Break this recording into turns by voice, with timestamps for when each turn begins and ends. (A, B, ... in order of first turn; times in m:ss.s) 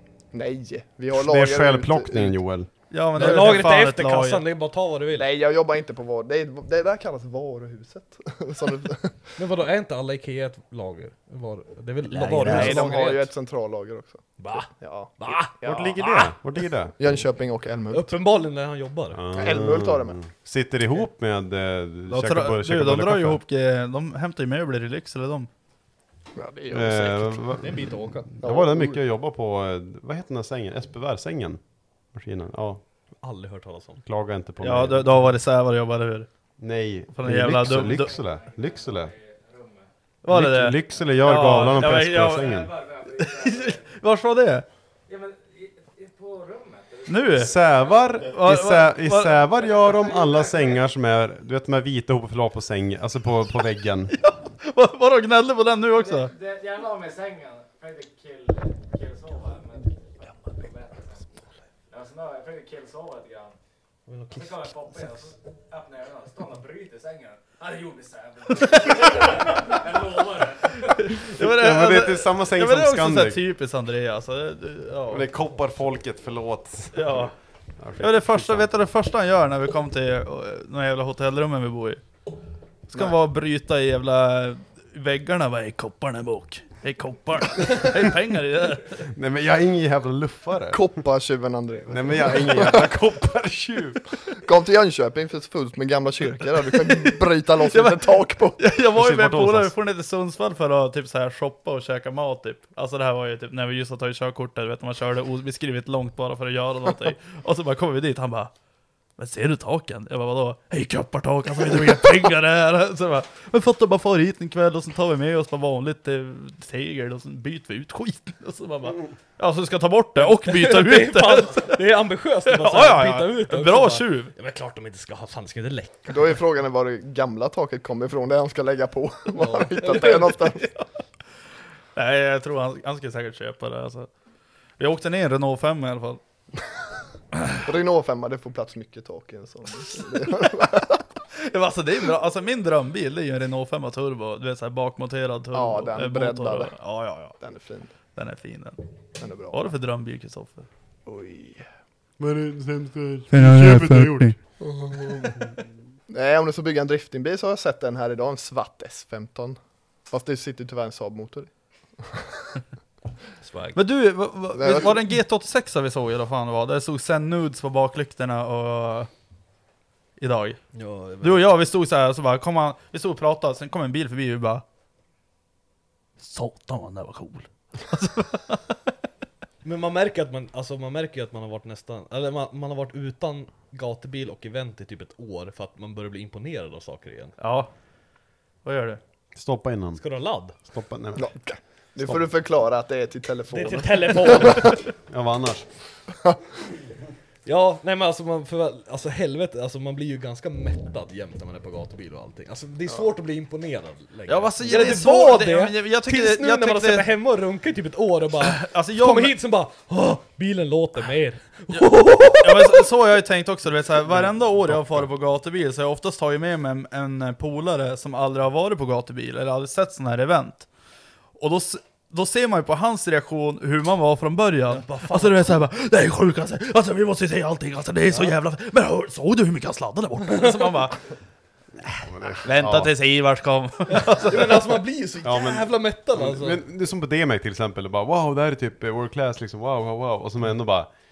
0:00.3-0:02.4 A
0:01.1-0:02.7 B
0:02.9-0:04.4 C
0:03.2-0:05.4 D
0:05.1-0:09.3 A
0:09.4-0:13.3 D
0:12.2-0:16.3 A
0:12.4-0:12.7 B
0:12.4-0:12.9 C
0:14.4-0:16.4 D
0:15.6-0:17.0 B
0:17.0-0:18.2 A
0:17.9-0:19.2 D
0:19.1-0:23.4 B
0:19.3-0:20.2 A
0:22.1-0:25.5 C
0:26.4-0:27.6 A
0:26.7-0:32.8 B
0:27.6-0:28.3 D
0:28.4-0:29.0 A
0:33.2-0:34.0 D
0:34.0-0:35.3 B
0:34.6-0:36.3 C
0:36.6-0:39.1 B
0:37.1-0:38.2 C
0:37.9-0:39.9 E
0:40.2-0:42.5 C
0:40.3-0:42.7 B
0:42.3-0:43.8 E
0:43.2-0:44.6 C
0:45.1-0:48.2 E
0:47.1-0:47.6 C
0:47.3-0:54.1 B
0:48.2-0:49.4 C
0:49.5-0:50.8 E
0:54.2-0:56.3 C
0:55.9-1:01.2 E
1:01.9-1:03.5 E
1:04.1-1:05.3 D
1:04.3-1:10.8 E
1:08.6-1:09.0 C
1:10.9-1:15.3 C
1:11.4-1:13.4 B
1:15.1-1:18.7 B
1:16.9-1:17.3 C
1:18.0-1:22.0 C
1:22.9-1:29.0 C
1:29.1-1:30.9 B
1:30.7-1:32.9 A
1:31.9-1:34.0 B
1:34.4-1:38.6 A
1:37.7-1:48.5 C
1:38.9-1:39.7 B
1:49.2-2:01.8 C
2:00.2-2:06.4 D
2:02.5-2:04.3 C
2:06.1-2:10.7 A
2:09.3-2:10.5 D
2:12.0-2:14.1 C
2:14.8-2:16.2 C
2:17.6-2:21.0 A
2:21.5-2:27.4 C
2:25.5-2:26.8 A
2:27.4-2:27.9 A
2:28.2-2:28.8 C
2:29.2-2:29.6 A
2:29.5-2:30.6 C
2:31.0-2:31.6 A
2:32.2-2:34.4 B
2:33.3-2:34.3 C
2:34.6-2:35.4 A
2:36.1-2:39.6 A
2:40.1-2:41.5 A
2:43.4-2:43.8 D
2:43.7-2:49.1 C
2:44.5-2:45.0 A
2:50.2-2:50.6 C
2:50.7-2:51.6 D
2:51.2-2:54.6 C
2:56.2-2:58.8 C
2:59.6-3:07.4 D
3:07.4-3:07.7 C
3:08.6-3:09.0 C
3:09.3-3:10.0 B
3:10.0-3:10.5 D
3:10.6-3:11.3 B
3:11.2-3:14.8 A
3:12.0-3:12.3 B
3:13.5-3:14.7 D
3:15.1-3:15.6 B
3:17.4-3:32.9 D
3:24.3-3:27.0 C
3:28.4-3:29.3 C
3:31.7-3:40.7 C
3:34.1-3:35.1 B
3:41.4-3:51.0 C
3:44.7-3:45.5 D
3:51.9-3:52.9 B
3:52.4-3:54.6 C
3:54.0-3:56.6 D
3:55.2-4:00.9 B